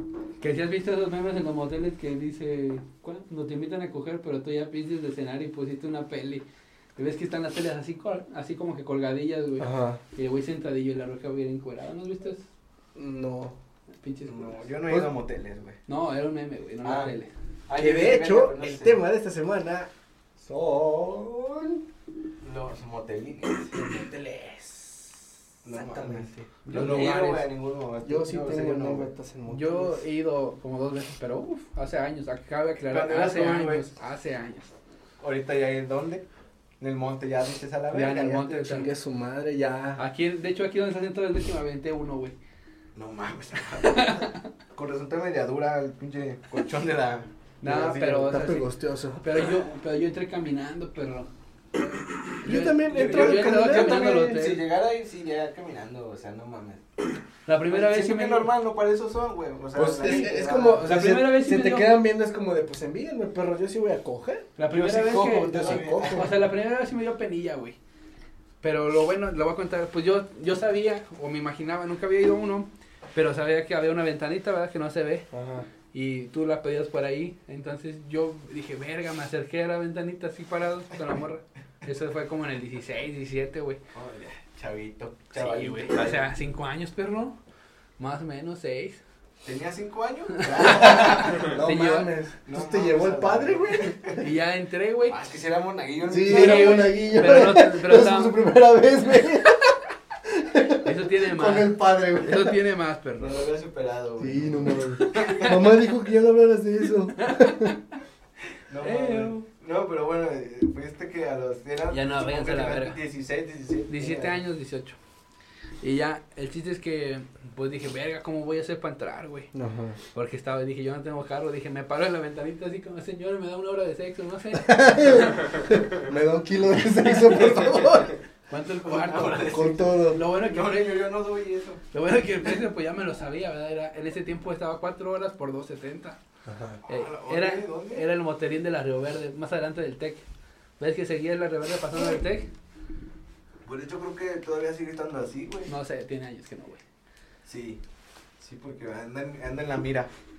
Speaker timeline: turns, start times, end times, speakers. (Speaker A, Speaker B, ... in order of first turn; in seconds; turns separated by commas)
Speaker A: 0.4-6.4, Speaker A: 7.0-12.5, Speaker B: 9.6-10.0, Speaker B: 12.9-13.6, Speaker A: 14.0-14.7, Speaker C: 14.2-15.8, Speaker A: 15.9-17.3, Speaker C: 16.8-17.1, Speaker C: 17.7-19.0, Speaker B: 17.8-21.8, Speaker C: 22.4-23.8, Speaker B: 23.7-27.0, Speaker C: 25.6-29.1, Speaker A: 26.7-27.4, Speaker B: 28.0-30.0, Speaker A: 29.5-34.7, Speaker C: 32.9-33.9, Speaker C: 35.2-36.2, Speaker C: 36.8-38.8, Speaker A: 37.9-38.9, Speaker B: 38.6-40.0, Speaker A: 40.0-42.4, Speaker C: 43.0-48.1, Speaker A: 43.8-44.5, Speaker A: 47.6-48.7, Speaker B: 47.6-49.4, Speaker A: 49.2-51.3, Speaker A: 52.4-54.6, Speaker B: 52.4-54.1, Speaker C: 52.9-56.8, Speaker A: 57.5-58.5, Speaker C: 57.7-60.9, Speaker B: 59.8-66.4, Speaker A: 60.0-62.0, Speaker A: 64.6-67.8, Speaker C: 64.7-66.3, Speaker A: 68.6-75.3, Speaker B: 75.3-75.7, Speaker A: 75.9-83.8, Speaker C: 83.9-86.2, Speaker A: 85.3-87.4, Speaker A: 88.0-89.0, Speaker C: 89.4-91.5, Speaker A: 90.4-92.1, Speaker B: 90.7-94.2, Speaker C: 92.5-94.2, Speaker A: 94.2-95.2, Speaker C: 95.1-97.2, Speaker B: 96.1-102.6, Speaker A: 96.3-98.4, Speaker A: 100.8-103.4, Speaker C: 103.2-105.6, Speaker B: 104.2-107.7, Speaker A: 105.1-105.6, Speaker A: 107.2-108.0, Speaker C: 108.7-114.4, Speaker A: 108.8-109.5, Speaker A: 111.9-113.0, Speaker A: 113.9-115.0, Speaker A: 115.8-119.5, Speaker B: 119.5-120.0, Speaker A: 120.1-125.5, Speaker B: 124.5-128.1, Speaker A: 127.1-127.4, Speaker C: 127.3-128.2, Speaker A: 128.5-130.9, Speaker C: 128.8-131.8, Speaker B: 129.5-130.2, Speaker A: 131.9-136.2, Speaker B: 136.5-136.8, Speaker C: 136.9-138.1, Speaker A: 136.9-140.2, Speaker A: 140.8-142.5, Speaker C: 143.6-145.7, Speaker A: 145.7-146.8, Speaker C: 147.4-147.8, Speaker C: 148.4-150.1